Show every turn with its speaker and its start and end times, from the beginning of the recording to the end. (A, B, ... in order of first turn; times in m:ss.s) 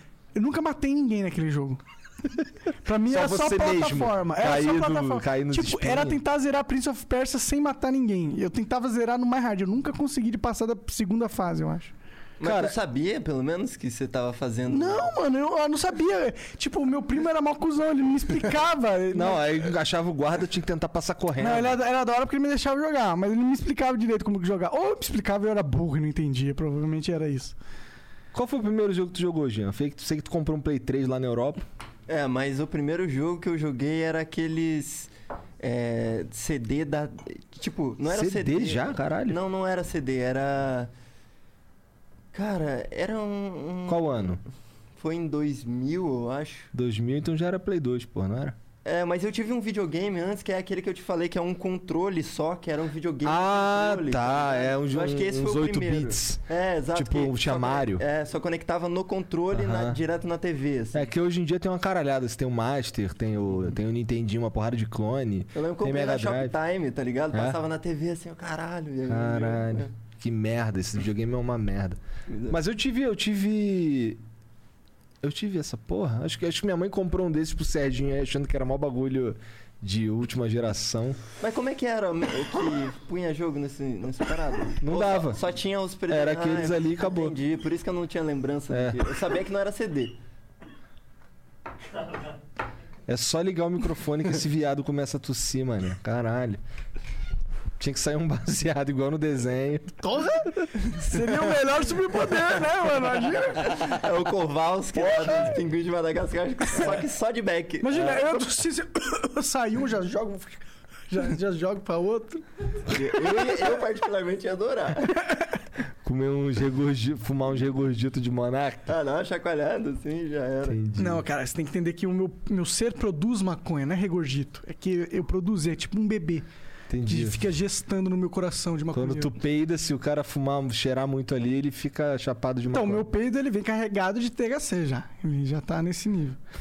0:00.4-0:01.8 A
0:02.8-0:11.9 A
0:03.1-0:06.2 B
0:12.4-0:15.1 C
0:12.4-0:12.7 B
0:14.7-0:19.8 A
0:19.1-0:21.8 B
0:21.4-0:27.6 A
0:28.3-0:31.6 B
0:32.1-0:40.9 C
0:38.1-0:39.4 B
0:42.3-0:44.2 C
0:43.9-0:44.4 B
0:45.0-0:46.7 C
0:46.7-0:48.6 B
0:48.8-1:01.1 C
0:53.2-0:56.4 B
0:57.0-0:58.0 B
0:59.5-1:00.0 B
1:00.9-1:06.6 B
1:05.5-1:09.9 C
1:07.3-1:07.6 B
1:09.1-1:12.0 B
1:12.3-1:12.6 C
1:12.5-1:14.2 B
1:15.2-1:21.2 B
1:21.4-1:30.2 C
1:24.8-1:25.4 B
1:26.1-1:27.4 B
1:28.7-1:29.0 B
1:33.1-1:36.6 B
1:37.8-1:40.2 B
1:40.0-1:44.1 A
1:43.6-1:48.4 C
1:45.0-1:45.5 A
1:47.8-1:52.4 A
1:52.9-1:55.2 C
1:56.0-1:58.9 B
1:58.9-2:00.8 C
2:00.7-2:01.2 B
2:01.0-2:06.5 A
2:06.9-2:07.4 B
2:07.1-2:09.3 A
2:08.9-2:13.0 B
2:12.7-2:16.4 A